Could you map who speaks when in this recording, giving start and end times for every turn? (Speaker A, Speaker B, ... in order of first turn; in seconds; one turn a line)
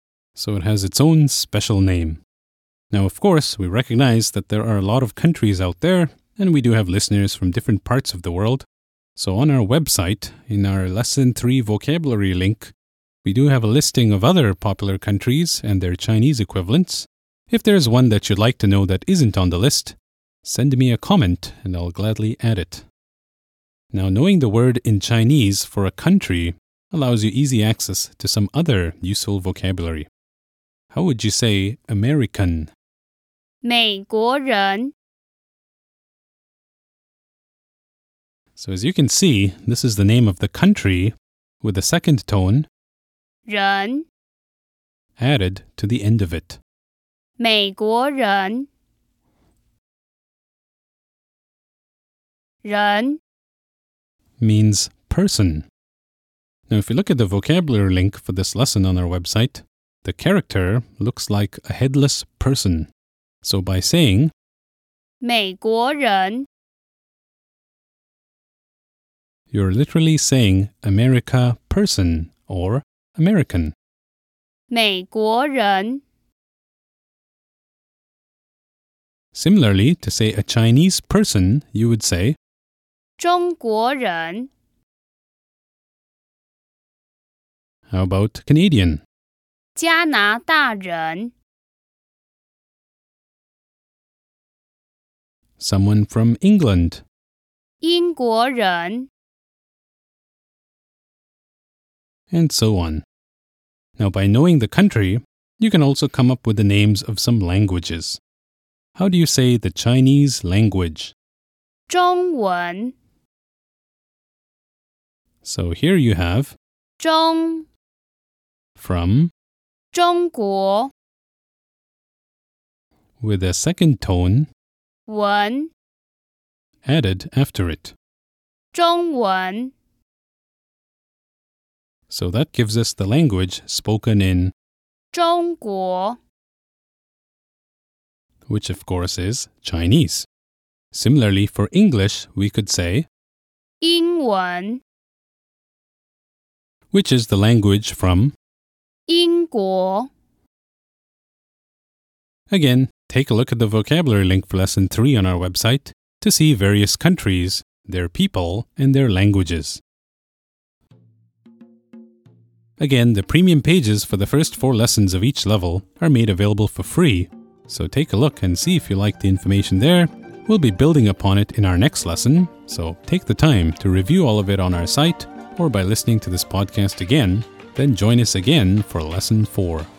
Speaker A: 0.3-2.2
Speaker A: 2.9-12.7
Speaker A: 13.2-22.9
Speaker A: 23.9-30.1
Speaker A: 30.9-32.7
Speaker B: 33.6-34.9
Speaker A: 38.5-42.7
Speaker B: 43.5-44.1
Speaker A: 45.2-46.6
Speaker B: 47.4-48.7
Speaker B: 52.6-53.2
Speaker A: 54.4-55.7
Speaker A: 56.7-62.9
Speaker A: 63.4-64.3
Speaker B: 65.2-66.5
Speaker A: 69.5-73.7
Speaker B: 74.7-76.0
Speaker A: 79.3-82.4
Speaker B: 83.2-84.5
Speaker A: 87.9-89.0
Speaker B: 89.8-91.3
Speaker A: 95.6-97.0
Speaker B: 97.8-99.1
Speaker A: 102.3-103.0
Speaker A: 104.0-108.2
Speaker A: 109.0-111.1
Speaker B: 111.9-112.9
Speaker A: 115.4-116.6
Speaker B: 117.0-117.7
Speaker A: 118.8-119.3
Speaker B: 119.9-120.9
Speaker A: 123.2-124.5
Speaker B: 125.1-125.7
Speaker A: 126.8-127.9
Speaker B: 128.7-129.7
Speaker A: 132.1-134.5
Speaker B: 135.1-136.2
Speaker A: 138.5-140.3
Speaker A: 140.9-143.1
Speaker B: 143.8-144.8
Speaker A: 146.9-148.3
Speaker B: 149.1-150.1
Speaker A: 152.5-159.8
Speaker A: 162.8-179.9